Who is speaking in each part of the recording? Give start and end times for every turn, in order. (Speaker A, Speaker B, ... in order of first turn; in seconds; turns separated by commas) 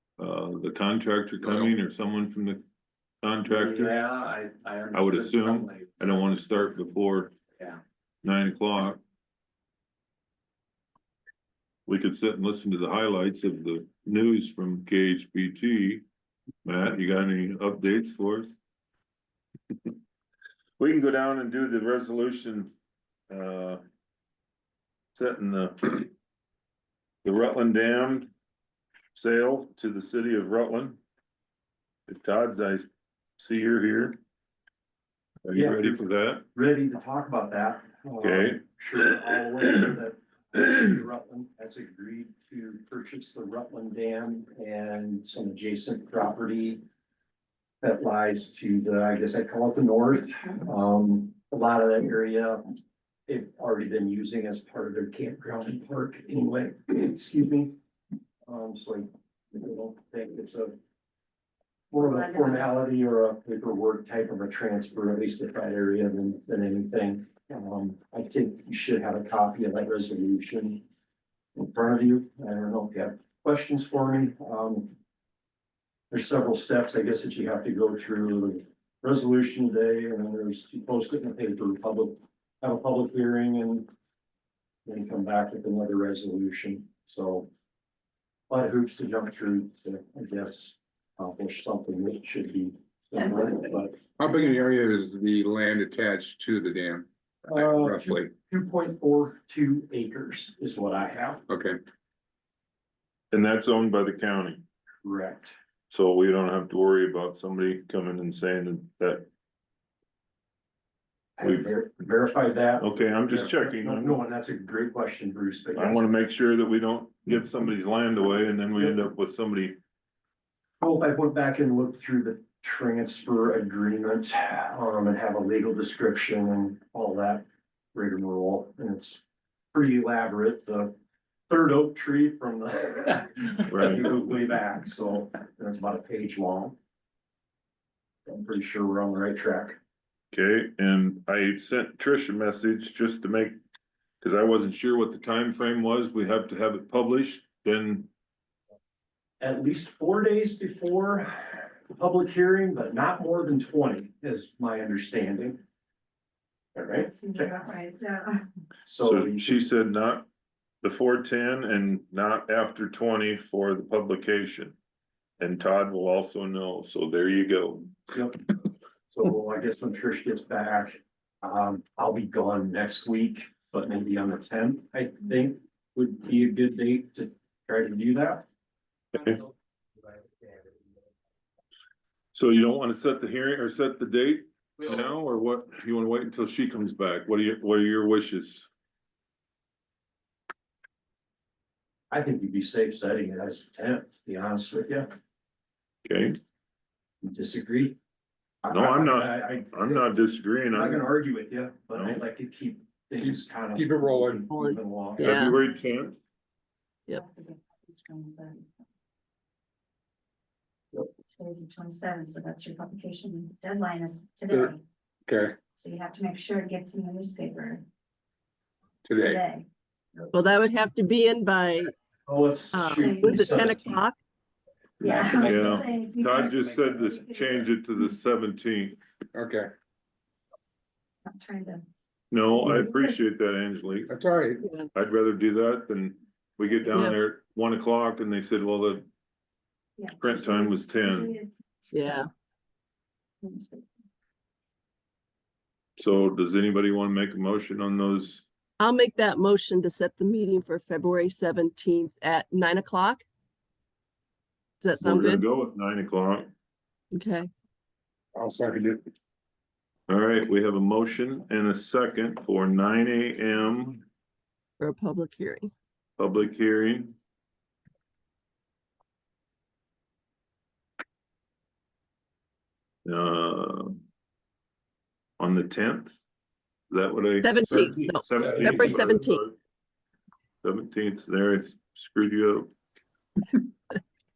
Speaker A: 0.2-2.6, Speaker A: 3.2-3.9, Speaker B: 4.1-4.7, Speaker A: 4.9-7.3, Speaker A: 8.2-9.0, Speaker A: 11.9-16.0, Speaker A: 16.6-18.6, Speaker A: 20.8-22.7, Speaker A: 23.3-23.8, Speaker A: 25.1-26.1, Speaker A: 27.2-28.3, Speaker A: 29.1-31.0, Speaker A: 32.1-34.2, Speaker A: 35.4-36.5, Speaker B: 35.5-36.0, Speaker B: 36.5-46.8, Speaker A: 38.2-38.6, Speaker B: 47.8-52.7, Speaker B: 53.3-57.7, Speaker B: 58.5-60.8, Speaker B: 61.9-70.8, Speaker C: 62.0-62.7, Speaker B: 71.5-74.9, Speaker B: 76.1-83.9, Speaker B: 84.8-87.5, Speaker B: 88.5-94.0, Speaker D: 94.2-98.3, Speaker B: 97.5-101.4, Speaker D: 101.5-101.8, Speaker A: 103.3-104.6, Speaker B: 105.0-105.5, Speaker A: 105.9-109.3, Speaker B: 111.4-116.0, Speaker A: 111.4-111.7, Speaker A: 112.8-114.2, Speaker A: 115.7-119.8, Speaker B: 120.8-129.2, Speaker B: 129.7-130.9, Speaker B: 131.5-136.8, Speaker A: 133.7-134.1, Speaker B: 138.3-139.8, Speaker A: 140.3-143.6, Speaker A: 144.2-148.1, Speaker B: 149.4-155.6, Speaker B: 156.7-157.5, Speaker C: 157.0-158.5, Speaker B: 158.8-159.6, Speaker A: 159.0-160.3, Speaker A: 160.8-164.8, Speaker A: 165.4-167.9, Speaker B: 168.1-168.4, Speaker B: 169.1-178.4, Speaker A: 182.3-188.7, Speaker B: 192.1-195.1, Speaker A: 196.0-196.4, Speaker B: 197.2-198.0, Speaker B: 198.6-200.1, Speaker A: 198.7-201.0, Speaker B: 200.7-205.4, Speaker A: 201.9-202.2, Speaker D: 203.2-204.5, Speaker E: 204.5-205.6, Speaker A: 205.2-206.2, Speaker C: 207.1-208.7, Speaker C: 211.3-214.8, Speaker D: 215.2-215.6, Speaker C: 215.8-217.8, Speaker D: 219.0-219.4, Speaker C: 219.2-219.7, Speaker E: 220.3-221.9, Speaker B: 222.2-224.0, Speaker E: 222.7-224.2, Speaker C: 222.9-223.7, Speaker C: 225.0-227.7, Speaker D: 225.0-225.8, Speaker A: 225.4-229.0, Speaker D: 229.3-229.7, Speaker C: 231.2-231.8, Speaker A: 232.3-234.1, Speaker C: 232.6-233.2, Speaker D: 234.1-234.7, Speaker E: 234.6-234.9, Speaker A: 234.9-239.0, Speaker C: 240.0-242.3, Speaker A: 240.2-241.3, Speaker E: 241.9-242.3, Speaker C: 243.4-243.9, Speaker A: 246.0-248.4, Speaker E: 248.8-253.2, Speaker E: 254.8-255.4, Speaker A: 255.0-256.5, Speaker E: 257.1-257.5, Speaker D: 258.3-259.0, Speaker A: 260.1-264.0, Speaker E: 264.8-265.7, Speaker A: 266.2-267.1, Speaker A: 273.0-274.0, Speaker A: 275.4-276.2, Speaker A: 276.9-279.6, Speaker E: 277.4-279.4, Speaker D: 278.4-278.8, Speaker A: 280.6-282.7